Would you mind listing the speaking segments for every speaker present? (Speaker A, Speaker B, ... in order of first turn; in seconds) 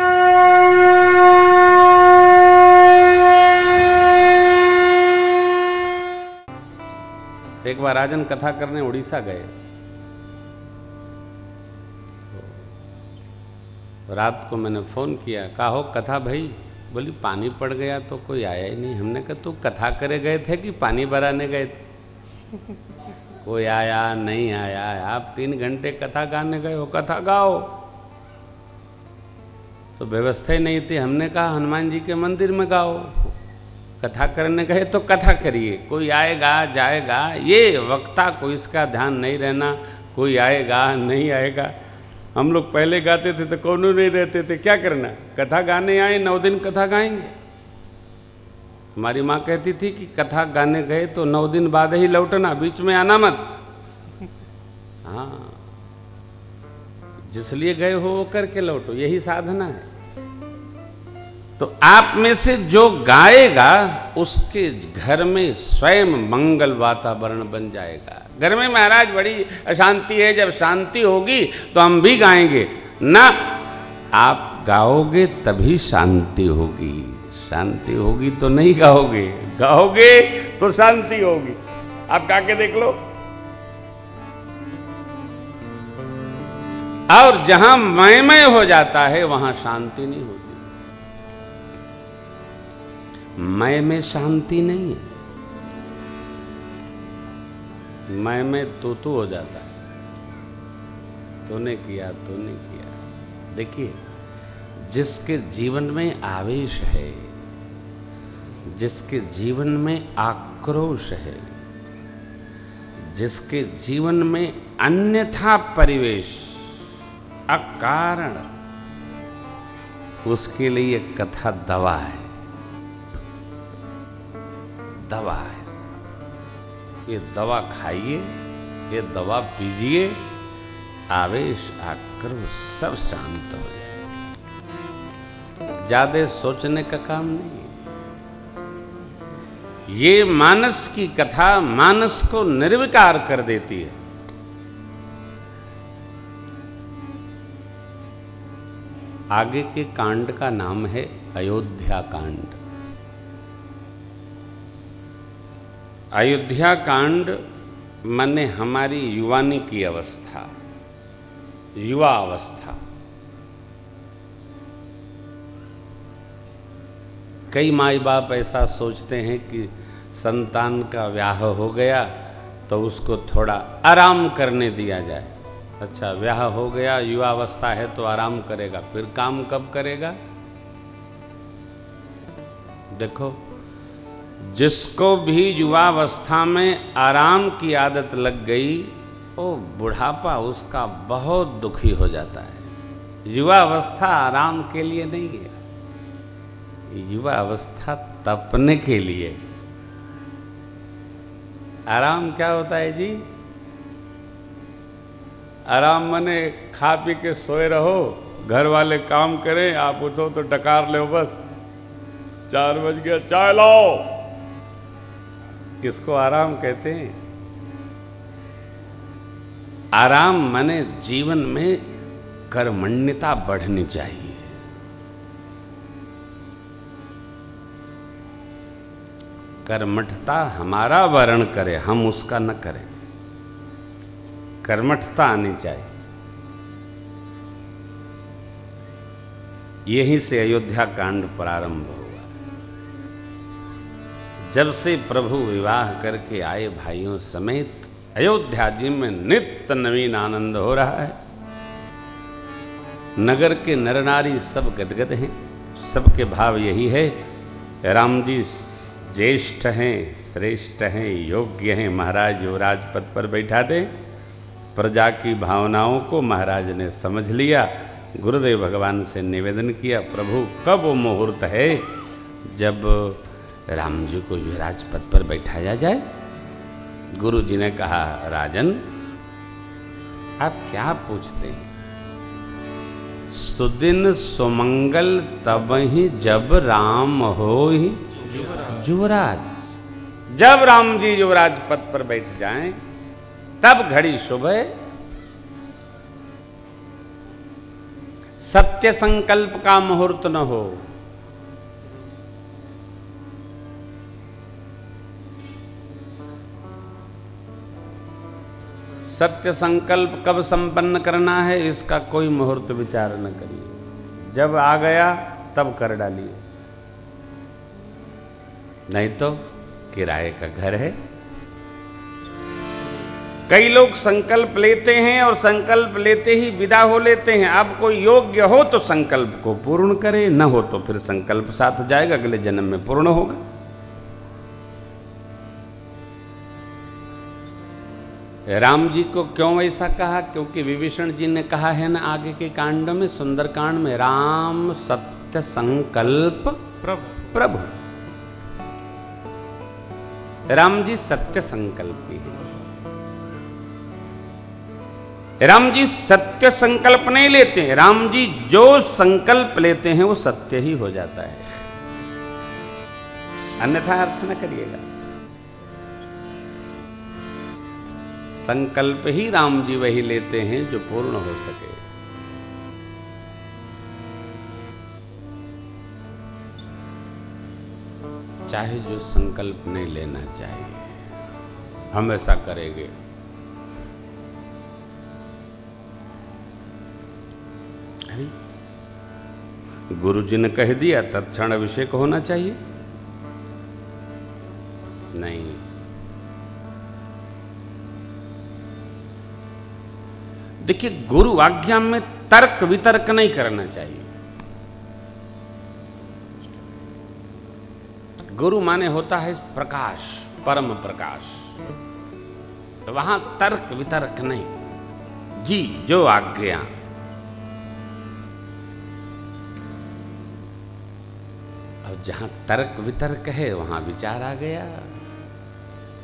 Speaker A: 7.6-9.5, 12.3-12.6, 14.1-21.8, 23.4-27.8, 30.0-33.4, 34.0-41.7, 42.4-47.3, 49.0-53.6, 55.0-55.6, 57.3-59.9, 61.6-73.5, 74.1-83.0, 87.1-90.7, 93.4-95.0, 98.1-99.8, 101.5-103.0, 103.5-104.0, 104.8-107.3, 108.7-111.5, 113.1-116.7, 117.5-118.4, 120.2-122.3, 125.0-125.9, 127.1-128.3, 128.9-130.2, 131.1-133.9, 135.8-137.8, 139.9-144.0, 149.3-152.6, 156.1-157.4, 158.1-160.5, 161.8-162.8, 167.5-172.1, 172.7-180.2, 182.9-183.4, 184.4-192.7, 193.3-195.6, 196.9-199.4, 201.9-203.2, 205.7-211.4, 212.5-214.2, 215.8-217.2, 219.9-221.8, 222.5-224.5, 229.7-232.9, 234.6-235.9, 239.9-242.3, 244.5-251.2, 253.2-257.2, 257.8-263.9, 264.8-271.9, 272.4-276.1, 277.1-278.8, 280.4-281.7, 283.3-289.7, 290.3-292.8, 293.6-294.7, 298.4-300.9, 309.1-316.4, 318.9-321.0, 323.5-333.4, 338.5-346.7, 347.2-347.7, 350.5-352.5, 355.4-361.4, 363.6-364.8, 368.2-371.8, 378.5-381.0, 381.9-382.9, 389.9-392.6, 395.1-395.6, 400.6-404.1, 408.3-411.5, 412.9-414.5, 415.4-416.7, 421.8-424.9